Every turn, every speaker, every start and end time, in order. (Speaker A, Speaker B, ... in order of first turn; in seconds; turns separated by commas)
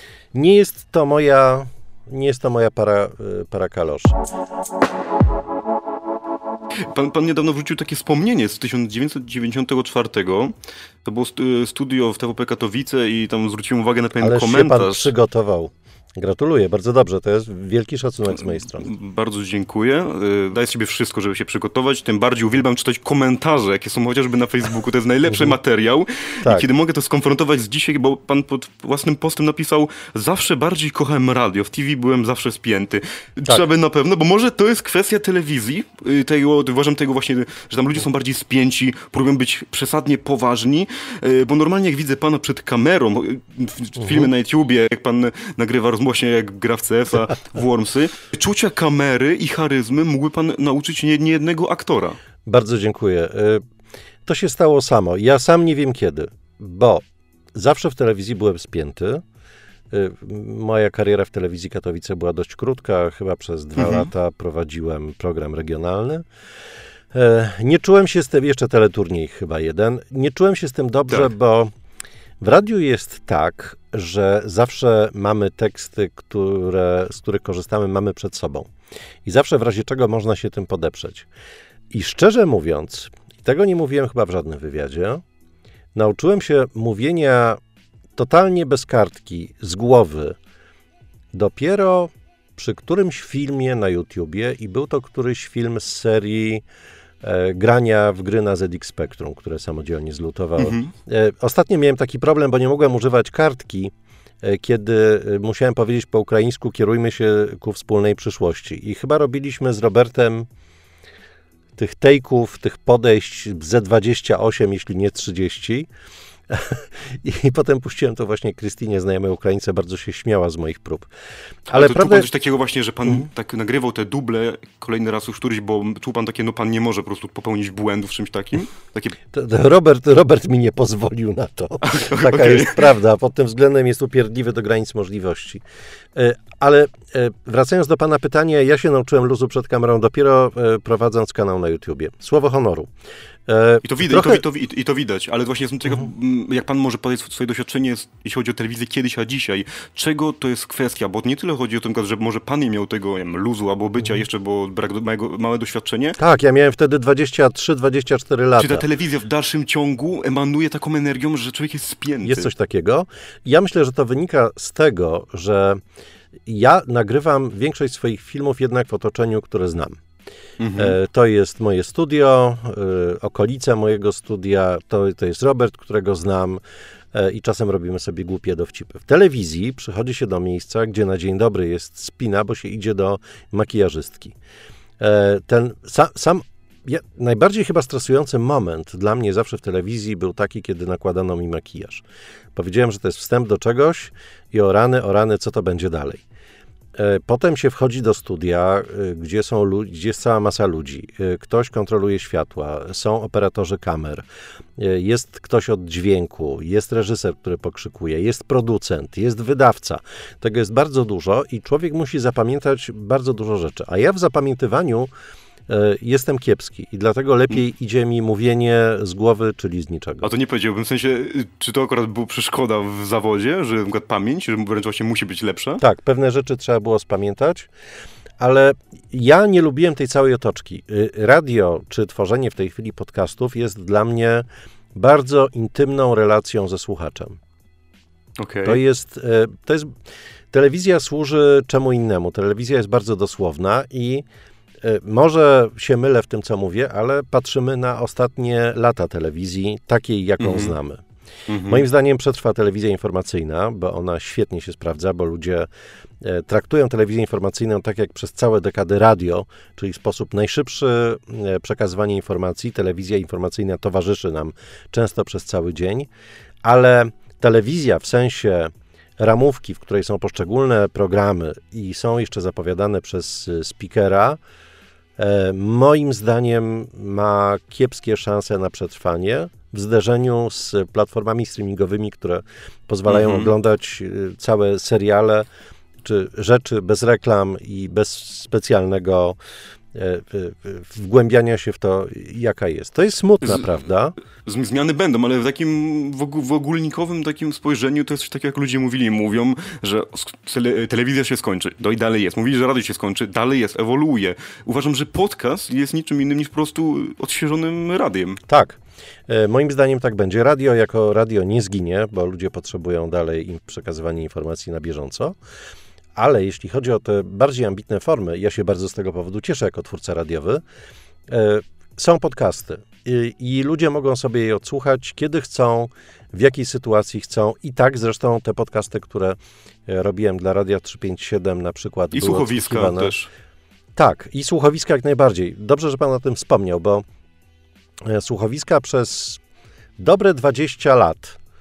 Speaker A: 0.3-4.2, Speaker B: 6.9-15.1, Speaker A: 14.2-18.9, Speaker B: 18.5-52.2, Speaker A: 52.5-53.6, Speaker A: 54.3-59.2, Speaker A: 59.9-66.2, Speaker B: 63.8-64.1, Speaker A: 67.1-71.7, Speaker A: 72.4-78.7, Speaker A: 79.2-81.3, Speaker A: 81.9-85.2, Speaker A: 86.0-87.6, Speaker A: 88.2-90.4, Speaker A: 91.3-96.6, Speaker A: 97.2-110.5, Speaker B: 100.6-100.9, Speaker A: 111.8-115.9, Speaker A: 116.5-121.1, Speaker A: 121.7-122.3, Speaker B: 121.7-129.2, Speaker A: 129.3-135.6, Speaker B: 131.8-132.9, Speaker A: 136.2-142.9, Speaker A: 143.5-144.4, Speaker B: 143.8-156.2, Speaker A: 156.2-158.8, Speaker B: 158.6-162.5, Speaker A: 162.2-165.8, Speaker A: 166.5-170.0, Speaker B: 170.6-170.9, Speaker A: 170.8-176.6, Speaker A: 177.1-184.3, Speaker A: 185.0-192.0, Speaker A: 192.6-196.2, Speaker A: 197.0-204.2, Speaker A: 204.8-215.1, Speaker A: 215.7-220.3, Speaker B: 220.2-225.8, Speaker A: 225.8-227.7, Speaker A: 228.4-237.4, Speaker B: 238.4-238.8, Speaker A: 238.7-239.9, Speaker A: 240.5-244.2, Speaker A: 244.8-251.0, Speaker B: 250.4-250.7, Speaker B: 251.5-251.9, Speaker A: 251.7-255.7, Speaker A: 256.2-266.1, Speaker A: 266.6-274.4, Speaker A: 275.2-285.5, Speaker B: 283.1-283.5, Speaker A: 286.0-289.4, Speaker A: 289.9-294.2, Speaker B: 294.4-308.4, Speaker A: 308.5-315.4, Speaker A: 316.2-320.6, Speaker A: 321.3-333.1, Speaker B: 332.1-333.3, Speaker A: 334.0-337.0, Speaker A: 338.1-339.4, Speaker A: 340.0-341.4